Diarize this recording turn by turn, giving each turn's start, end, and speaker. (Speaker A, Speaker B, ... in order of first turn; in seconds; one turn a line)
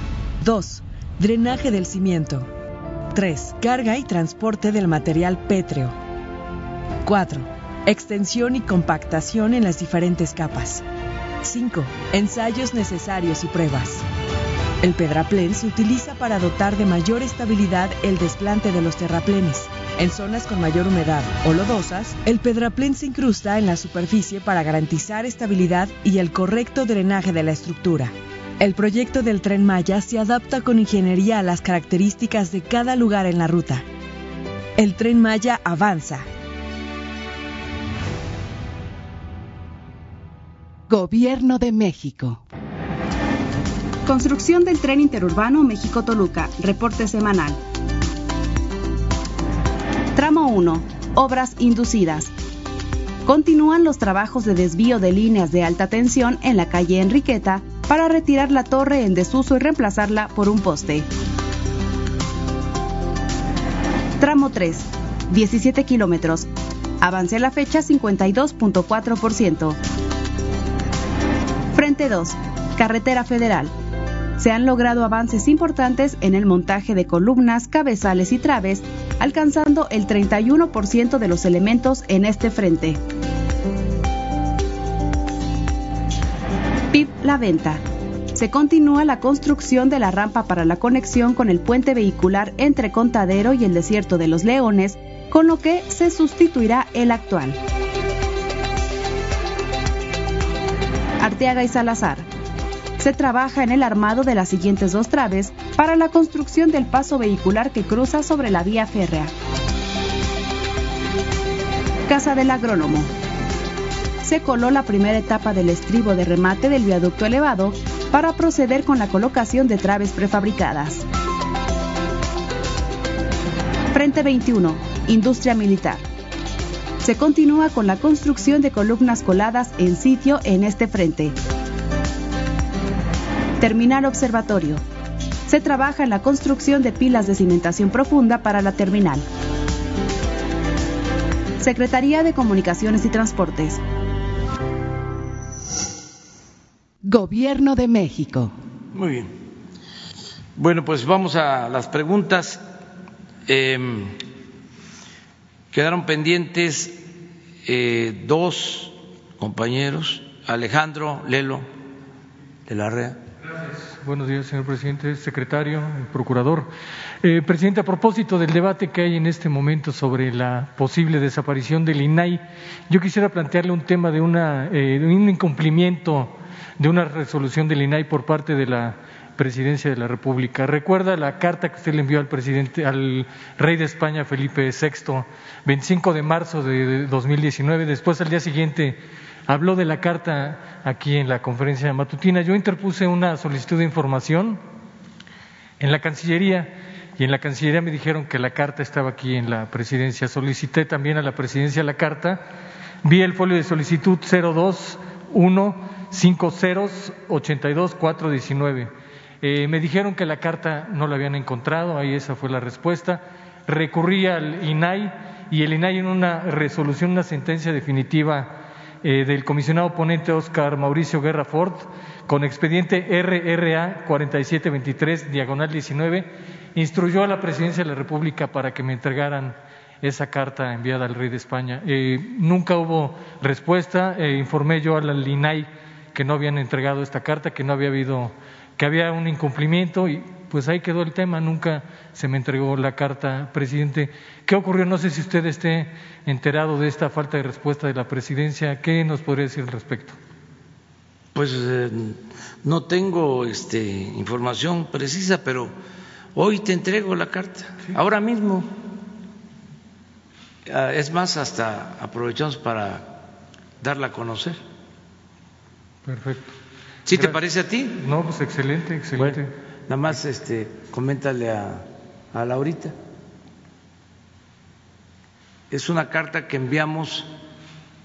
Speaker A: 0.4-2.5
Speaker A: 3.1-6.0
Speaker A: 7.0-10.8
Speaker A: 11.4-14.0
Speaker A: 14.8-33.9
Speaker A: 34.8-36.3
Speaker B: 40.9-42.4
Speaker C: 44.0-47.6
Speaker C: 50.1-52.3
Speaker C: 53.2-61.1
Speaker C: 64.2-66.5
Speaker C: 67.0-69.8
Speaker C: 71.7-73.7
Speaker C: 74.4-83.0
Speaker C: 86.9-87.8
Speaker C: 88.3-97.6
Speaker C: 101.2-102.2
Speaker C: 103.0-109.3
Speaker C: 112.1-113.1
Speaker C: 114.2-121.0
Speaker C: 123.9-126.0
Speaker C: 127.0-131.3
Speaker C: 133.6-134.8
Speaker C: 135.5-139.2
Speaker C: 141.6-143.8
Speaker B: 147.0-148.5
Speaker D: 148.9-149.3
Speaker D: 150.6-152.6
Speaker D: 153.5-154.2
Speaker D: 155.7-157.0
Speaker D: 157.6-161.7
Speaker D: 162.7-163.2
Speaker E: 163.8-166.7
Speaker E: 167.2-194.6
Speaker E: 195.8-202.4
Speaker E: 203.0-250.2
Speaker D: 251.3-255.7
Speaker D: 256.3-258.7
Speaker D: 260.6-263.2
Speaker D: 263.8-264.6
Speaker E: 266.1-266.5
Speaker D: 267.1-268.0
Speaker E: 267.1-267.4
Speaker E: 268.0-269.5
Speaker D: 269.2-272.9
Speaker D: 275.7-277.3